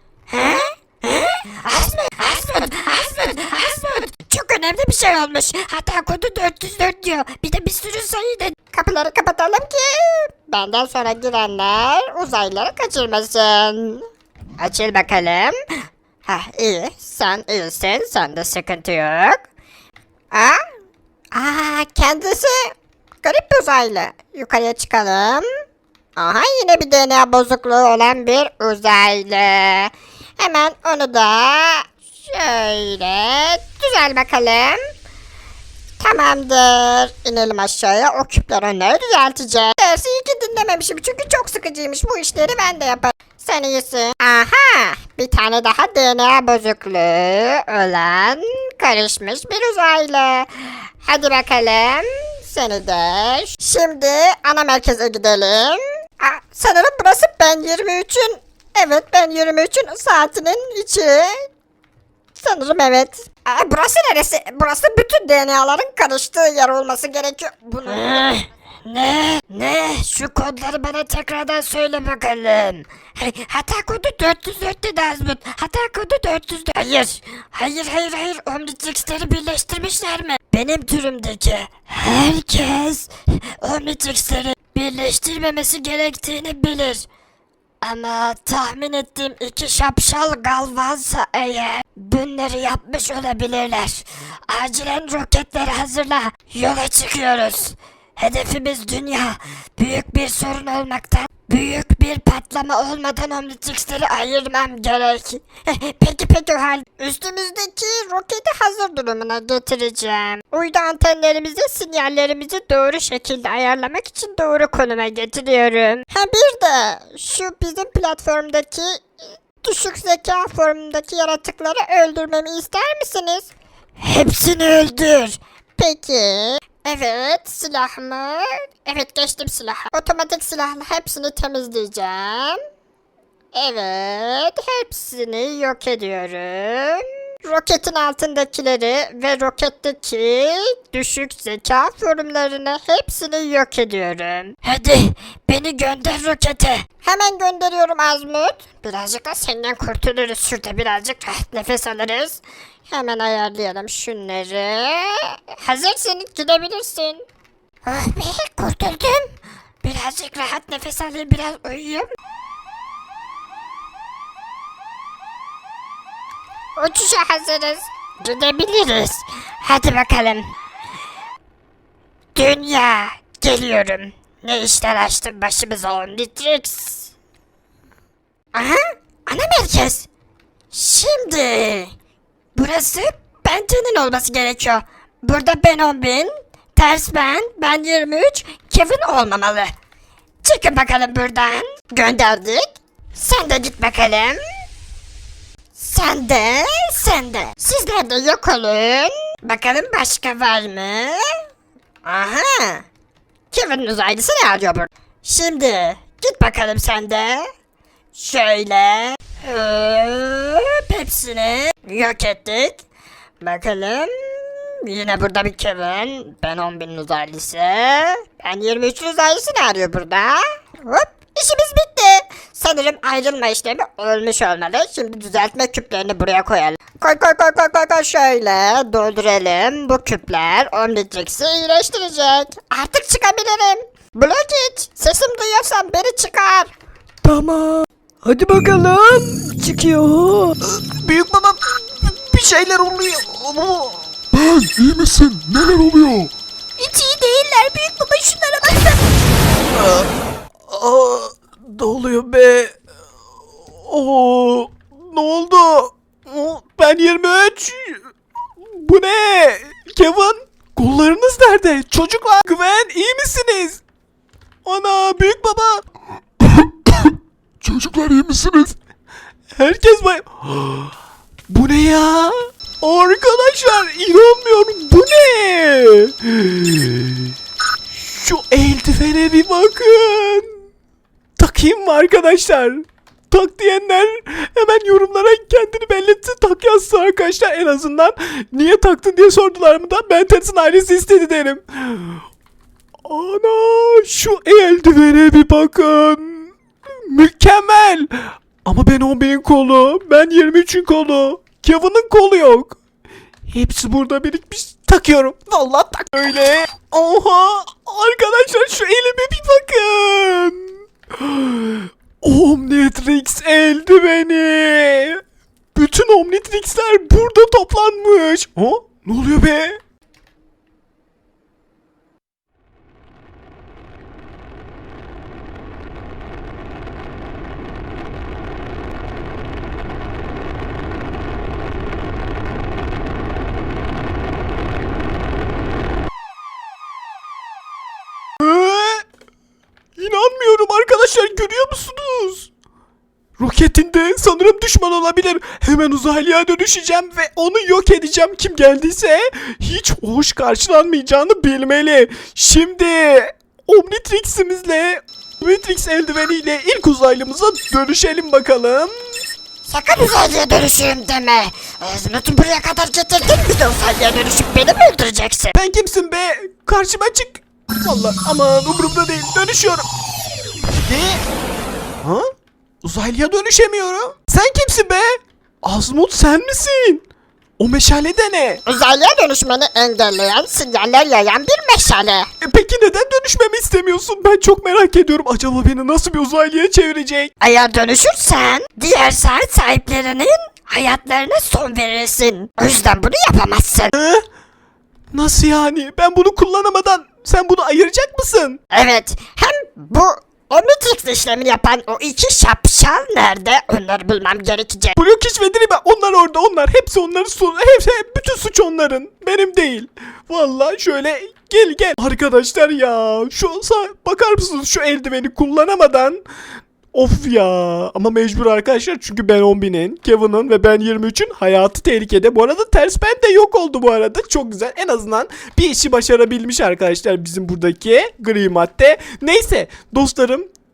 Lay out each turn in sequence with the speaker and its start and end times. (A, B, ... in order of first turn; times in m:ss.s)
0:00.3-0:14.1 A
0:14.6-0:15.6 A
0:16.2-0:19.5 A
0:20.3-0:20.6 A
0:21.3-0:22.7 A
0:23.2-0:25.5 A
0:26.2-0:34.8 A
0:36.0-1:01.5 A
1:02.4-1:27.1 A
1:27.8-1:59.0 A
1:59.6-2:12.6 A
2:13.5-2:37.2 A
2:37.8-2:39.3 A
2:39.8-2:42.1 A
2:46.8-2:50.5 A
2:52.4-2:57.1 A
2:58.5-3:00.1 A
3:00.7-3:01.9 A
3:02.6-3:09.7 A
3:10.4-3:14.4 A
3:15.8-3:21.4 A
3:22.0-3:22.8 A
3:23.5-3:27.5 A
3:28.1-3:32.8 A
3:33.4-3:56.7 A
3:57.3-4:00.6 B
4:00.8-4:04.0 C
4:04.3-4:06.3 D
4:06.8-4:09.0 E
4:10.7-4:12.8 C
4:13.8-4:18.0 C
4:18.6-4:23.8 C
4:24.6-4:25.8 C
4:26.4-4:28.8 D
4:29.6-4:30.9 C
4:31.5-4:37.3 C
4:37.9-4:40.5 C
4:41.4-4:52.2 C
4:53.1-4:56.5 C
4:57.1-5:02.8 C
5:03.5-5:15.2 C
5:15.8-5:19.8 C
5:38.4-5:39.0 C
5:40.0-5:42.5 C
5:43.4-5:59.2 C
5:59.6-6:05.6 A
6:05.6-6:09.8 C
6:10.7-6:11.2 C
6:12.0-6:12.3 C
6:12.8-6:17.0 C
6:17.6-6:18.6 C
6:18.7-6:22.3 A
6:22.4-6:27.3 C
6:27.4-6:33.9 A
6:34.0-6:34.2 C
6:35.1-6:38.6 C
6:38.7-6:44.9 A
6:45.0-6:56.2 C
6:56.9-7:10.5 C